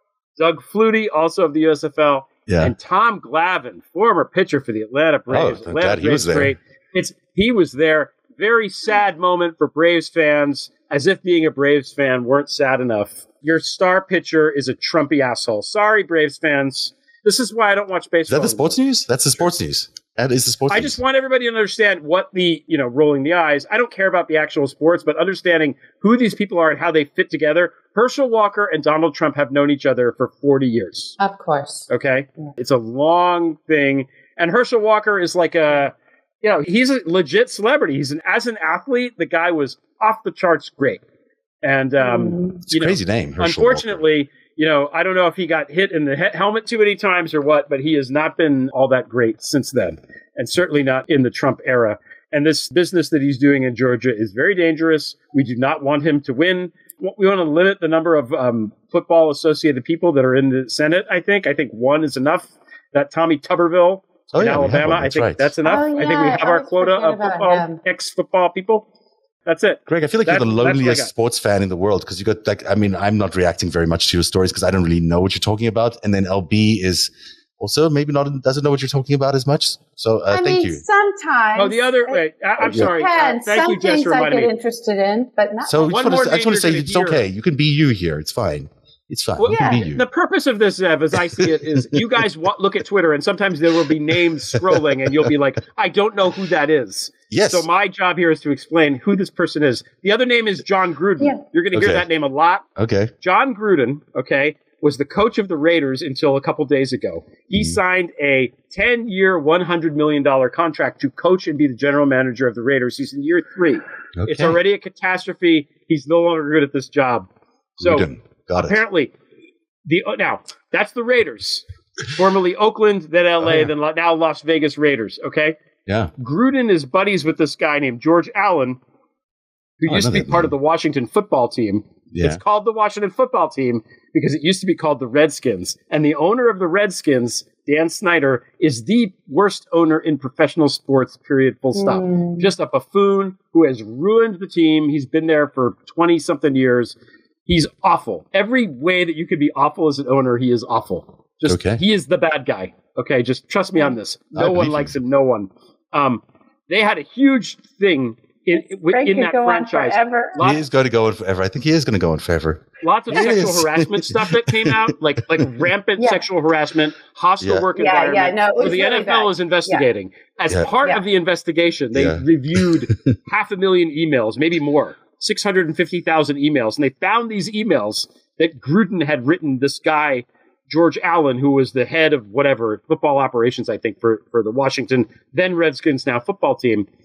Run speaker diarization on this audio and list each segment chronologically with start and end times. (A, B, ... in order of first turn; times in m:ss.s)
0:00.4-0:18.8 A
0:02.5-0:02.7 B
0:05.3-0:06.6 B
0:18.3-0:21.0 B
0:20.7-0:31.2 A
0:31.2-0:31.9 C
0:31.9-0:41.0 A
0:41.6-1:08.8 A
0:42.0-0:42.6 C
0:42.6-0:44.0 B
1:04.3-1:05.5 B
1:05.6-1:07.8 C
1:09.4-1:11.1 A
1:09.9-1:20.8 B
1:20.3-1:26.0 C
1:21.6-1:24.5 A
1:22.6-1:22.9 B
1:25.7-1:30.0 B
1:25.9-1:27.2 A
1:29.4-1:42.6 A
1:29.5-1:29.9 C
1:31.1-1:32.1 B
1:34.5-1:35.3 B
1:37.3-1:37.6 B
1:41.7-1:42.0 B
1:42.8-1:43.1 B
1:43.2-1:57.3 A
1:47.5-1:47.8 B
1:54.2-1:54.6 B
1:57.8-1:58.8 B
1:57.8-1:59.1 A
1:59.8-2:05.6 A
2:03.4-2:03.7 B
2:05.8-2:06.1 B
2:06.2-2:08.8 A
2:09.8-2:27.0 A
2:09.9-2:10.5 B
2:12.1-2:12.4 B
2:21.7-2:22.5 C
2:27.5-2:40.6 A
2:31.5-2:31.8 B
2:34.3-2:34.9 B
2:38.9-2:40.4 C
2:40.4-2:45.0 B
2:42.8-3:06.9 A
2:46.0-2:46.2 C
2:47.4-2:47.7 B
2:47.7-2:49.8 C
2:51.9-2:53.1 B